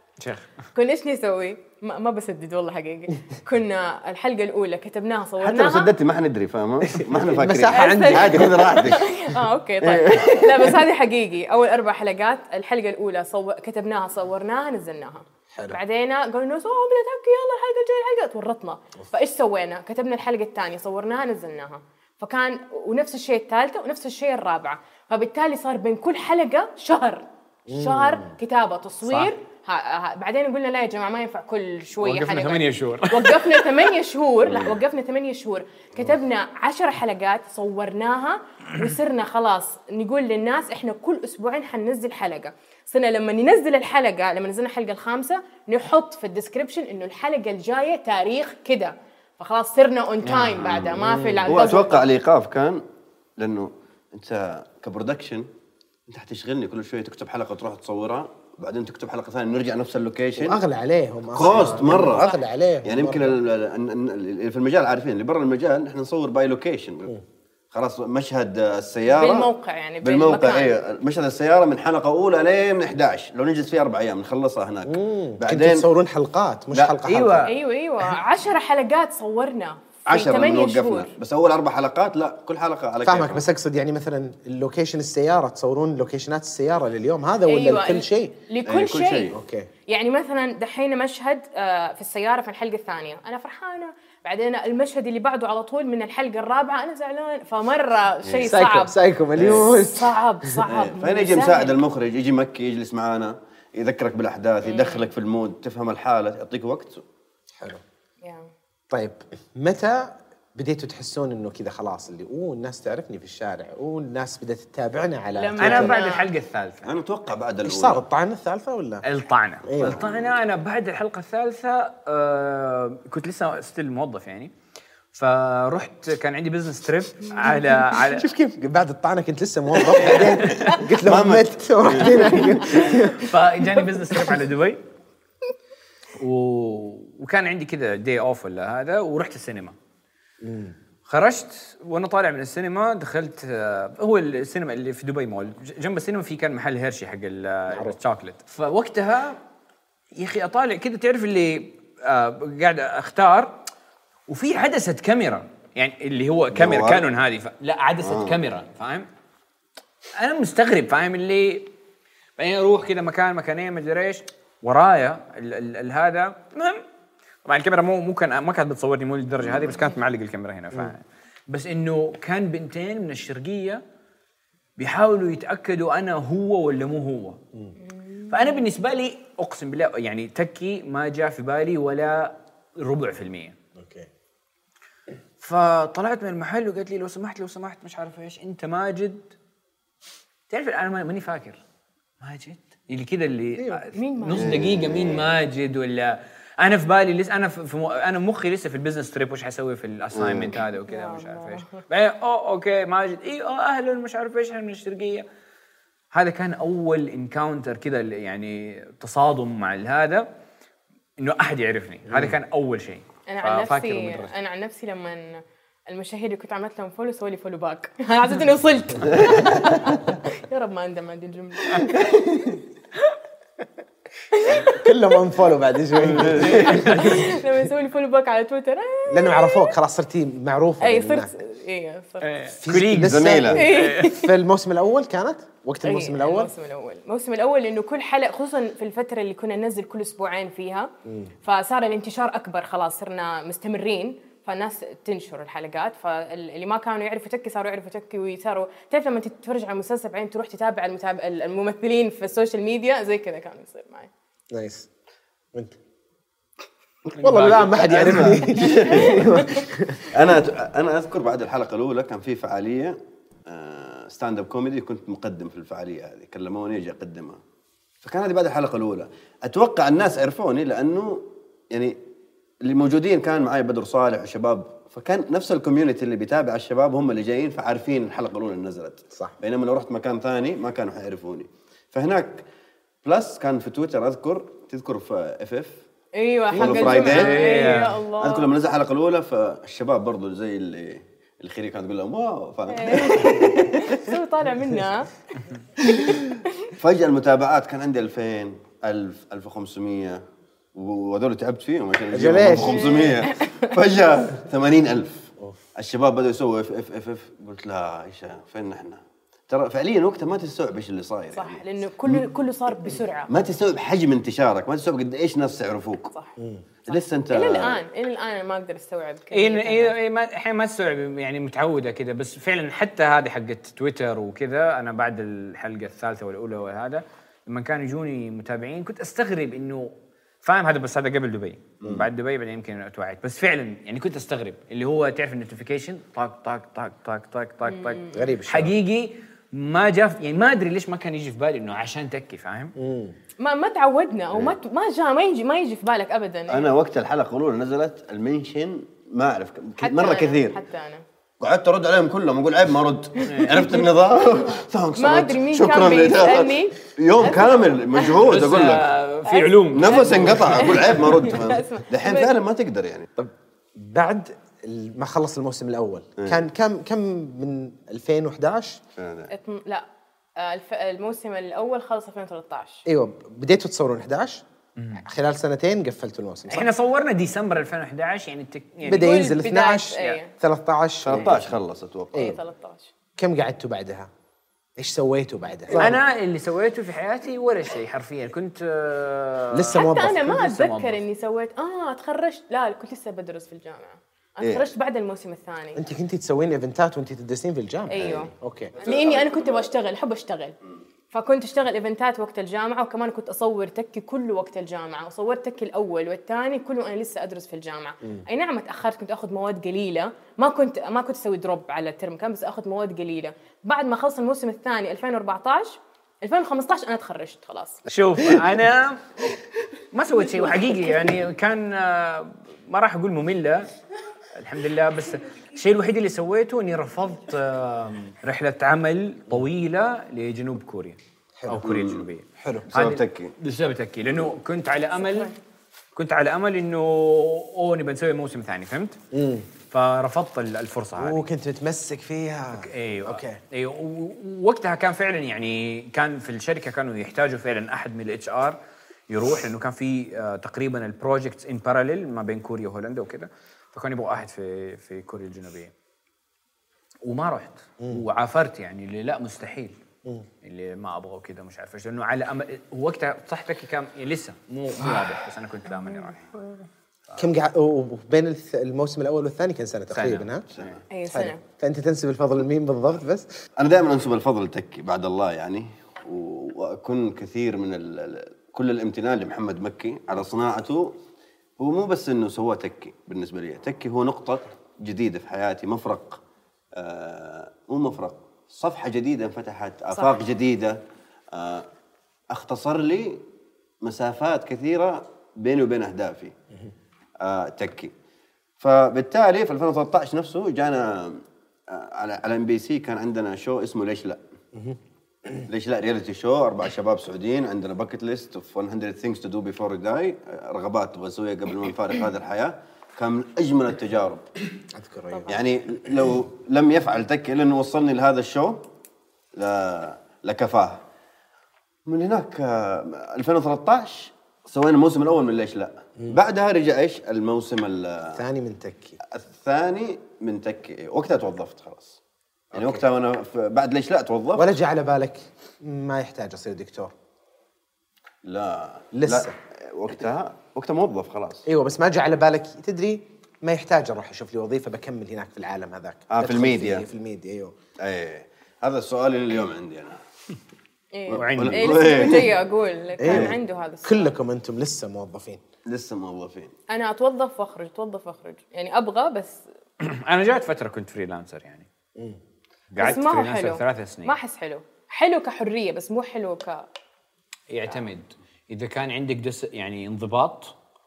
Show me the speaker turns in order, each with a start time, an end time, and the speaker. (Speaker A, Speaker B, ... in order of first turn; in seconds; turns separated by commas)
Speaker A: 0.2-0.5, Speaker B: 0.7-5.9, Speaker C: 5.4-9.1, Speaker D: 6.9-8.8, Speaker B: 7.7-52.1, Speaker C: 9.8-10.8, Speaker D: 15.5-15.8, Speaker D: 27.7-28.4, Speaker A: 29.1-29.3, Speaker A: 32.0-33.9, Speaker C: 34.4-34.8, Speaker A: 50.2-50.6, Speaker C: 50.5-52.8, Speaker D: 50.9-51.8, Speaker C: 53.4-55.5, Speaker C: 56.1-60.6, Speaker D: 60.4-63.4, Speaker C: 61.3-67.1, Speaker C: 67.7-69.5, Speaker B: 69.1-70.7, Speaker C: 70.0-75.8, Speaker D: 74.8-77.5, Speaker A: 76.7-77.5, Speaker B: 77.5-81.1, Speaker C: 80.1-83.5, Speaker D: 83.0-88.3, Speaker B: 87.5-89.3, Speaker C: 88.6-89.4, Speaker D: 89.3-89.7, Speaker B: 89.9-101.8, Speaker C: 98.2-98.5, Speaker D: 98.4-100.6, Speaker C: 99.3-99.7, Speaker C: 100.7-107.0, Speaker B: 104.6-105.1, Speaker B: 108.2-108.5, Speaker D: 108.9-116.0, Speaker B: 115.3-116.2, Speaker A: 115.6-117.0, Speaker C: 116.8-118.0, Speaker D: 117.6-119.0, Speaker A: 119.0-124.5, Speaker D: 119.6-120.0, Speaker C: 119.8-120.4, Speaker A: 125.1-128.3, Speaker D: 128.0-133.3, Speaker A: 129.9-130.8, Speaker C: 130.0-133.0, Speaker A: 133.2-134.8, Speaker A: 136.2-139.7, Speaker D: 140.4-140.8, Speaker A: 141.1-149.4, Speaker D: 147.7-147.9, Speaker A: 150.1-153.5, Speaker A: 154.3-159.1, Speaker C: 156.5-157.1, Speaker C: 158.0-158.4, Speaker A: 160.2-161.7, Speaker A: 162.4-166.8, Speaker A: 167.4-173.8, Speaker C: 169.4-169.8, Speaker A: 174.8-177.4, Speaker B: 177.8-178.6, Speaker A: 178.3-183.6, Speaker D: 183.8-184.1, Speaker A: 185.4-189.3, Speaker A: 190.5-191.6, Speaker A: 192.2-205.2, Speaker D: 193.6-193.8, Speaker B: 193.9-194.6, Speaker C: 194.3-195.3, Speaker C: 200.1-200.6, Speaker B: 200.8-201.8, Speaker A: 206.1-210.2, Speaker A: 211.2-214.3, Speaker B: 213.3-222.1, Speaker C: 219.2-219.5, Speaker C: 221.9-222.3, Speaker B: 224.3-224.8, Speaker D: 224.7-227.3, Speaker B: 225.9-229.7, Speaker C: 226.1-226.8, Speaker A: 226.4-227.2, Speaker D: 229.1-231.3, Speaker B: 230.8-232.3, Speaker A: 232.2-234.1, Speaker D: 232.6-236.5, Speaker C: 232.9-233.6, Speaker B: 233.5-234.3, Speaker B: 235.8-240.9, Speaker D: 241.0-241.3, Speaker B: 241.4-254.1, Speaker D: 254.5-254.9, Speaker A: 257.1-258.5, Speaker D: 257.2-260.4, Speaker C: 257.6-267.4, Speaker B: 258.9-259.4, Speaker C: 268.0-272.0, Speaker C: 272.6-282.4, Speaker C: 283.0-285.8, Speaker B: 286.2-288.5, Speaker D: 286.5-286.8, Speaker C: 286.5-287.3, Speaker A: 286.9-288.0, Speaker C: 288.2-294.0, Speaker B: 292.7-295.1, Speaker C: 296.0-300.2, Speaker C: 300.7-312.2, Speaker D: 302.1-302.9, Speaker B: 302.5-303.7, Speaker B: 311.3-313.3, Speaker C: 313.3-316.1, Speaker C: 316.9-317.8, Speaker B: 316.9-319.9, Speaker A: 319.3-329.9, Speaker A: 330.4-342.7, Speaker C: 331.8-332.1, Speaker B: 337.7-338.2, Speaker D: 338.1-338.7, Speaker D: 342.8-343.1, Speaker B: 343.4-346.7, Speaker C: 346.5-350.6, Speaker B: 349.8-351.0, Speaker C: 351.4-358.9, Speaker A: 353.3-353.8, Speaker B: 353.4-353.7, Speaker B: 355.0-358.2, Speaker A: 358.2-361.3, Speaker B: 359.2-362.3, Speaker C: 359.7-363.1, Speaker D: 363.2-368.8, Speaker C: 366.2-366.4, Speaker C: 368.9-369.3, Speaker B: 369.3-369.9, Speaker B: 370.4-372.8, Speaker D: 372.9-374.4, Speaker A: 374.8-375.0, Speaker D: 375.0-376.7, Speaker A: 376.5-379.3, Speaker D: 378.8-381.4, Speaker B: 378.9-380.3, Speaker C: 381.0-382.4, Speaker B: 382.1-382.9, Speaker D: 383.2-384.1, Speaker D: 384.8-385.9, Speaker B: 385.7-385.9, Speaker A: 385.8-391.0, Speaker D: 389.5-390.4, Speaker B: 389.7-395.8, Speaker C: 394.4-394.6, Speaker D: 395.7-398.7, Speaker B: 397.9-400.5, Speaker C: 397.9-399.7, Speaker B: 401.1-417.9, Speaker A: 417.9-419.0, Speaker A: 419.9-423.7, Speaker B: 420.6-421.1, Speaker A: 424.3-435.3, Speaker D: 431.4-431.6, Speaker C: 431.6-432.0, Speaker D: 432.4-432.7, Speaker C: 432.7-433.3, Speaker A: 435.9-439.0, Speaker D: 439.1-439.5, Speaker A: 439.7-441.2, Speaker D: 441.0-443.4, Speaker A: 442.5-448.6, Speaker A: 449.1-455.7, Speaker A: 457.0-459.8, Speaker A: 460.4-466.4, Speaker D: 467.2-470.4, Speaker A: 469.9-470.7, Speaker C: 470.5-470.8, Speaker B: 470.9-471.4, Speaker D: 471.1-473.3, Speaker C: 473.6-480.9, Speaker C: 481.6-486.2, Speaker C: 486.7-490.8, Speaker C: 491.3-491.7, Speaker C: 492.3-493.2, Speaker C: 493.8-496.3, Speaker C: 497.2-497.9, Speaker C: 498.6-504.2, Speaker C: 505.4-514.2, Speaker D: 514.7-515.3, Speaker B: 515.1-515.4, Speaker C: 515.3-518.6, Speaker C: 519.3-520.8, Speaker C: 521.9-528.2, Speaker D: 528.1-529.0, Speaker C: 529.0-532.0, Speaker D: 532.5-532.8, Speaker C: 532.5-534.5, Speaker D: 534.3-536.9, Speaker C: 538.2-541.5, Speaker D: 538.9-539.3, Speaker D: 541.5-547.5, Speaker C: 546.1-546.9, Speaker C: 547.8-550.0, Speaker B: 550.9-554.1, Speaker C: 551.1-552.3, Speaker A: 551.1-552.1, Speaker D: 553.0-555.4, Speaker C: 553.0-553.4, Speaker C: 555.6-556.5, Speaker B: 556.7-559.4, Speaker A: 559.8-561.7, Speaker A: 562.7-564.1, Speaker B: 562.8-566.6, Speaker A: 567.5-570.5